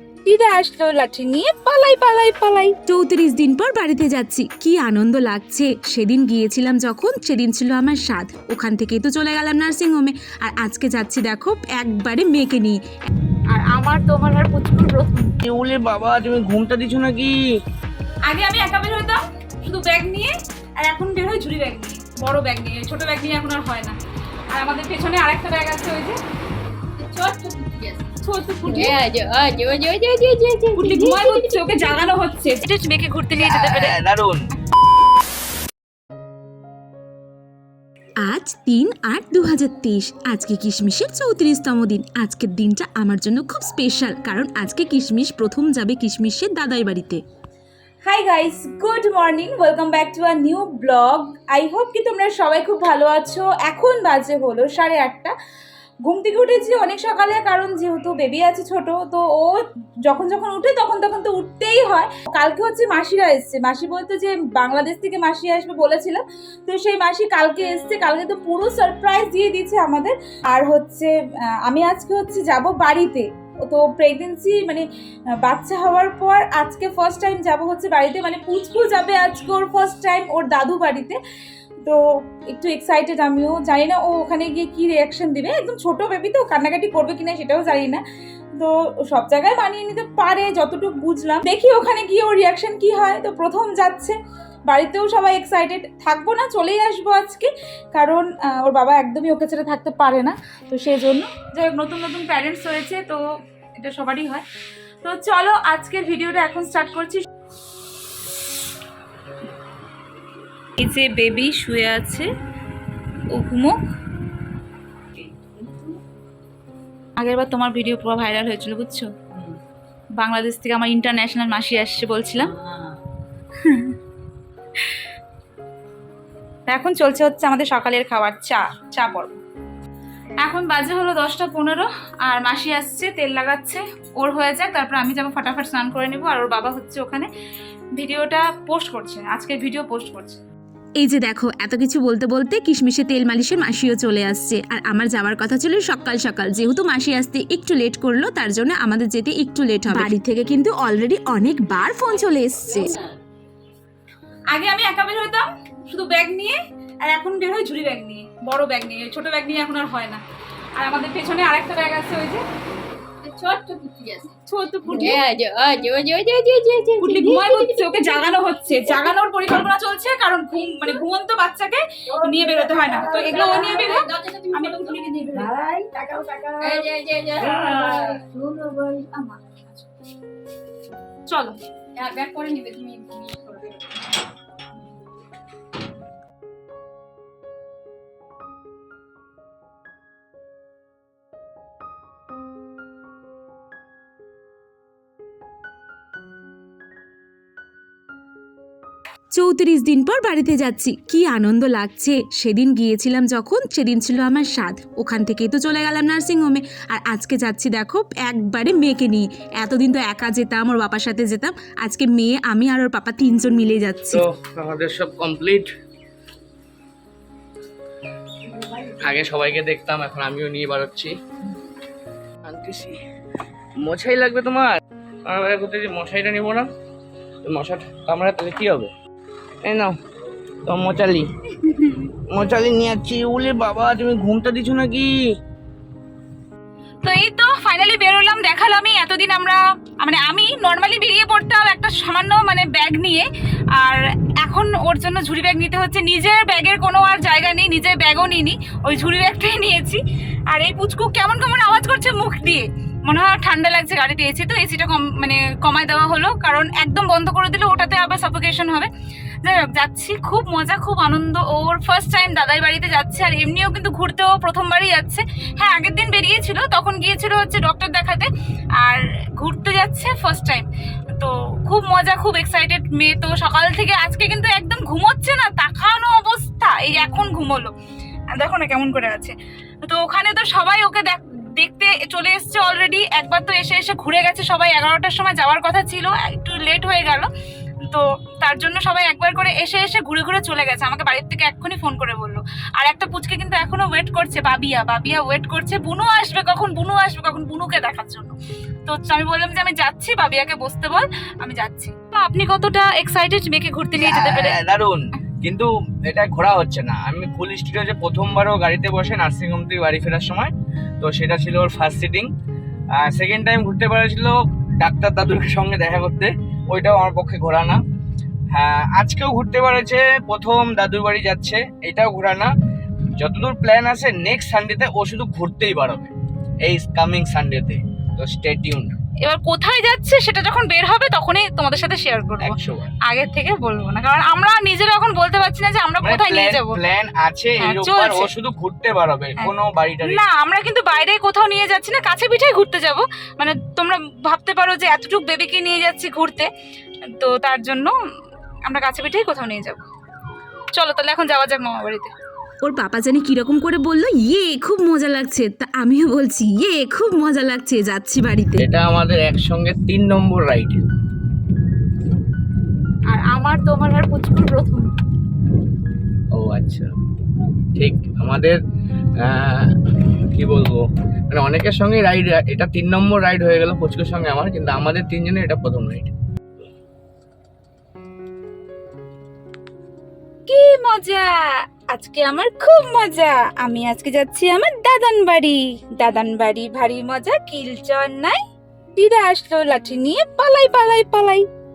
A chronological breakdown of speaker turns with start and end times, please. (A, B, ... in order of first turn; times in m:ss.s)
0:00.2-0:02.7 A
0:02.9-0:12.8 B
0:13.5-0:15.3 A
0:15.5-0:17.4 C
0:18.3-0:24.0 A
0:24.5-0:26.2 A
0:27.0-0:28.1 D
0:28.2-0:29.0 A
0:28.7-0:32.0 D
0:30.8-0:34.0 A
0:33.4-0:34.4 C
0:38.2-0:47.2 B
0:48.0-0:55.3 A
0:56.0-1:14.8 A
1:15.4-1:21.2 A
1:21.8-1:28.0 A
1:28.6-1:34.2 A
1:34.7-1:43.2 A
1:43.8-1:44.4 A
1:45.0-1:47.2 A
1:50.8-1:52.3 A
1:53.3-1:53.8 A
1:55.4-1:55.8 D
1:57.2-1:59.1 A
2:00.2-2:02.5 A
2:03.6-2:04.0 A
2:06.7-2:09.4 A
2:10.4-2:17.3 A
2:18.0-2:20.4 A
2:21.0-2:32.9 B
2:34.5-2:40.2 A
2:40.8-2:42.4 A
2:43.2-2:44.4 D
2:44.5-2:45.2 A
2:44.9-2:48.3 D
2:47.0-2:55.5 A
2:53.1-2:55.0 D
2:56.6-2:58.2 D
2:58.8-2:59.9 A
3:01.3-3:01.6 A
3:02.0-3:04.0 D
3:19.3-3:34.2 B
3:34.1-3:35.7 C
3:38.9-3:41.1 C
3:42.4-3:43.0 C
3:43.8-3:46.7 C
3:47.4-3:48.9 C
3:49.6-3:49.9 C
3:50.6-3:51.3 C
3:51.7-3:52.1 A
3:52.3-3:55.1 C
3:57.0-4:18.9 A
4:19.4-4:30.7 A
4:31.2-4:37.7 A
4:38.4-4:47.3 A
4:47.9-5:04.6 A
5:04.0-5:12.3 C
5:13.0-5:17.8 C
5:18.5-5:22.5 C
5:23.2-5:26.1 C
5:26.6-5:29.0 C
5:29.2-5:36.8 A
5:32.4-5:32.9 C
5:36.0-5:40.2 C
5:37.6-5:38.3 A
5:39.4-5:46.5 A
5:47.2-5:47.9 A
5:48.7-5:49.8 A
5:50.8-5:52.1 A
5:52.6-5:58.6 B
5:58.6-6:00.8 C
6:03.1-6:04.9 A
6:06.4-6:06.9 C
6:07.8-6:08.6 C
6:09.2-6:09.7 C
6:10.3-6:16.1 C
6:20.5-6:21.3 A
6:21.9-6:28.4 A
6:29.0-6:31.4 A